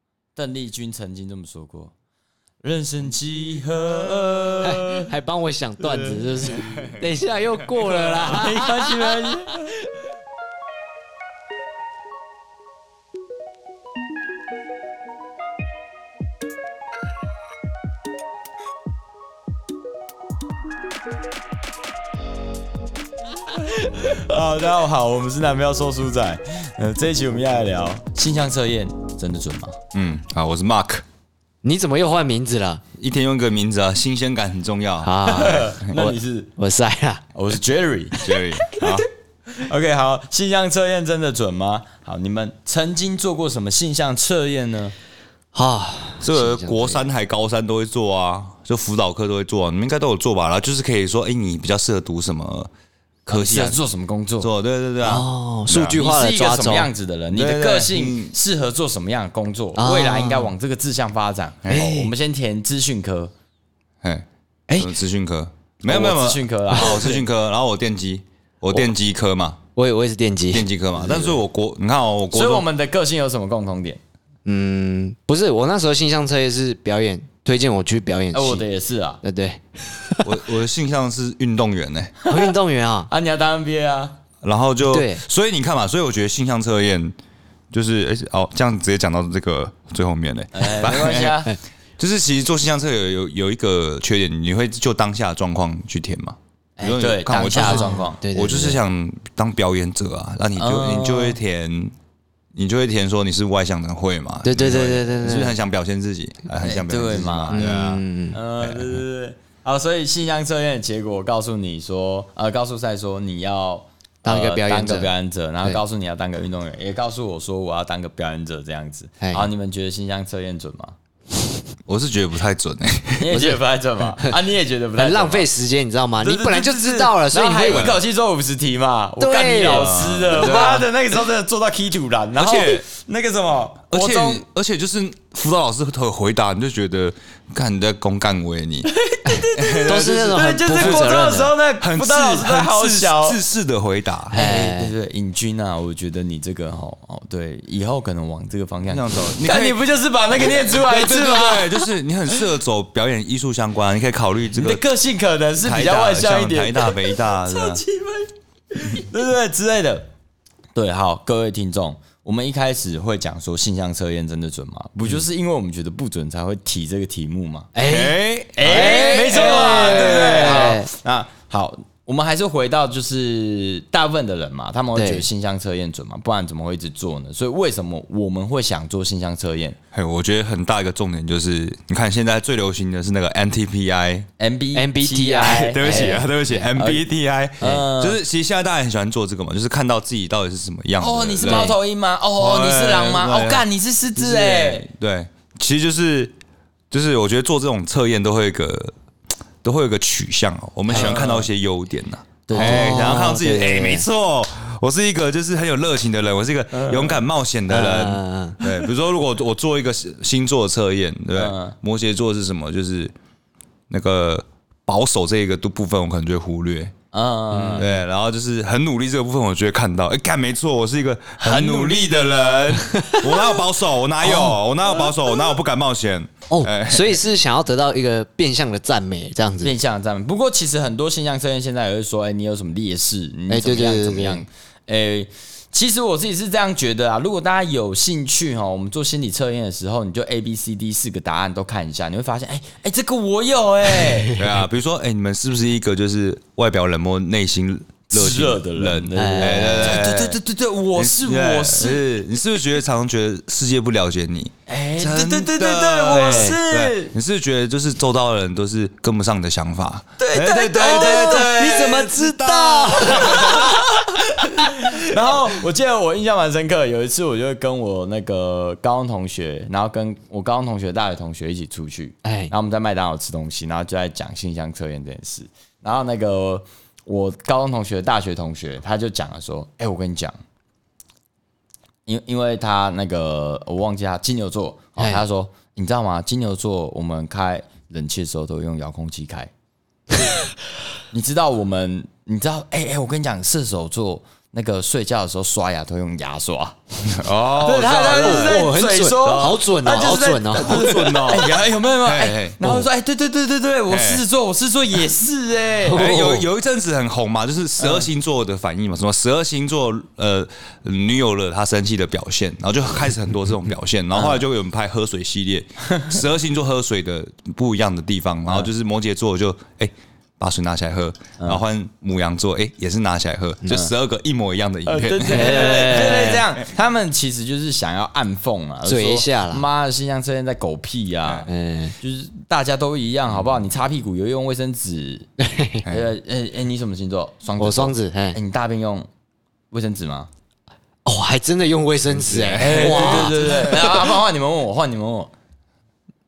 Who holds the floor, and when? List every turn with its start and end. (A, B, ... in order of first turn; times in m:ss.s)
0:00.3-0:01.9 A
0:02.6-0:05.1 A
0:04.6-0:09.4 B
0:05.8-0:06.4 A
0:07.9-0:09.7 A
0:23.4-0:29.8 A
0:29.9-0:31.0 C
0:31.6-0:32.8 B
0:33.0-0:35.1 C
0:35.0-0:37.2 B
0:35.2-0:36.5 A
0:37.3-0:39.0 A
0:38.2-0:39.1 C
0:39.6-0:45.0 A
0:45.5-0:47.0 B
0:46.2-0:52.7 C
0:53.3-0:53.8 C
0:53.3-0:54.5 A
0:54.4-0:56.0 C
0:55.0-0:56.9 B
0:56.0-1:03.3 A
0:57.3-0:58.3 C
0:59.8-1:00.5 B
1:01.7-1:02.1 B
1:04.0-1:09.6 C
1:04.7-1:04.9 B
1:05.8-1:07.2 A
1:09.8-1:10.7 B
1:10.5-1:12.7 C
1:10.9-1:11.4 A
1:12.3-1:14.0 A
1:14.5-1:18.7 B
1:18.3-1:19.2 A
1:19.2-1:20.4 B
1:20.2-1:22.1 C
1:22.2-1:22.5 A
1:22.3-1:23.1 B
1:23.1-1:24.2 A
1:24.4-1:27.2 C
1:24.8-1:25.2 B
1:27.7-1:31.5 C
1:30.5-1:31.6 A
1:32.0-1:41.9 C
1:36.8-1:38.2 A
1:37.5-1:38.8 B
1:40.6-1:41.4 A
1:42.6-1:48.0 C
1:44.4-1:45.6 B
1:46.6-1:47.7 A
1:47.5-1:48.4 B
1:48.3-2:01.0 A
1:48.6-1:49.0 C
1:54.2-1:55.1 B
1:59.2-1:59.5 B
2:01.9-2:03.4 C
2:03.2-2:05.5 A
2:03.3-2:03.6 B
2:05.0-2:08.0 B
2:06.2-2:14.4 A
2:07.7-2:08.0 C
2:09.2-2:10.9 B
2:09.6-2:10.8 C
2:12.4-2:12.8 C
2:13.9-2:18.9 C
2:18.9-2:23.4 A
2:19.2-2:21.5 B
2:19.6-2:21.2 C
2:21.8-2:24.4 C
2:24.3-2:24.9 B
2:24.3-2:32.4 A
2:28.9-2:29.8 C
2:30.4-2:34.8 C
2:34.6-2:40.1 A
2:35.6-2:37.8 C
2:40.8-2:47.7 A
2:47.8-2:50.9 B
2:47.8-2:50.8 C
2:48.6-2:59.8 A
2:54.9-2:55.2 B
2:59.9-3:04.3 C
3:04.4-3:07.0 A
3:04.8-3:06.3 B
3:05.4-3:11.8 C
3:07.6-3:08.2 A
3:11.0-3:14.8 A
3:11.4-3:11.8 B
3:12.4-3:16.3 C
3:16.9-3:18.9 C
3:19.6-3:33.1 C
3:20.9-3:21.2 B
3:20.9-3:21.5 A
3:22.5-3:23.2 A
3:22.5-3:24.0 B
3:26.8-3:27.2 A
3:27.7-3:28.6 B
3:31.3-3:31.8 A
3:33.9-3:36.9 C
3:37.1-3:37.9 A
3:37.5-3:38.0 B
3:37.8-3:47.2 C
3:41.4-3:42.8 A
3:42.9-3:43.6 B
3:44.2-3:44.5 B
3:46.5-3:49.8 B
3:49.6-4:04.4 A
3:53.5-3:54.4 B
4:04.3-4:10.4 C
4:08.1-4:12.0 A
4:09.1-4:10.1 B
4:10.9-4:23.6 C
4:14.7-4:17.1 A
4:16.1-4:16.6 B
4:20.2-4:22.2 A
4:20.8-4:23.9 B
4:22.9-4:40.4 A
4:32.2-4:32.5 B
4:42.1-4:49.5 A
4:51.1-4:56.8 A
4:57.1-4:59.6 C
4:57.6-5:06.1 A
4:57.6-5:01.3 B
5:00.5-5:02.9 C
5:03.9-5:04.2 C
5:05.9-5:06.5 B
5:05.9-5:26.4 C
5:07.8-5:08.0 A
5:24.8-5:35.3 A
5:25.3-5:26.4 B
5:28.8-5:29.6 B
5:31.5-5:31.9 B
5:35.4-5:35.8 B
5:35.8-5:39.1 A
5:35.9-5:36.1 C
5:37.6-5:38.4 B
5:39.7-5:40.3 A
5:41.0-5:44.1 B
5:42.1-5:43.9 C
5:42.6-5:45.3 A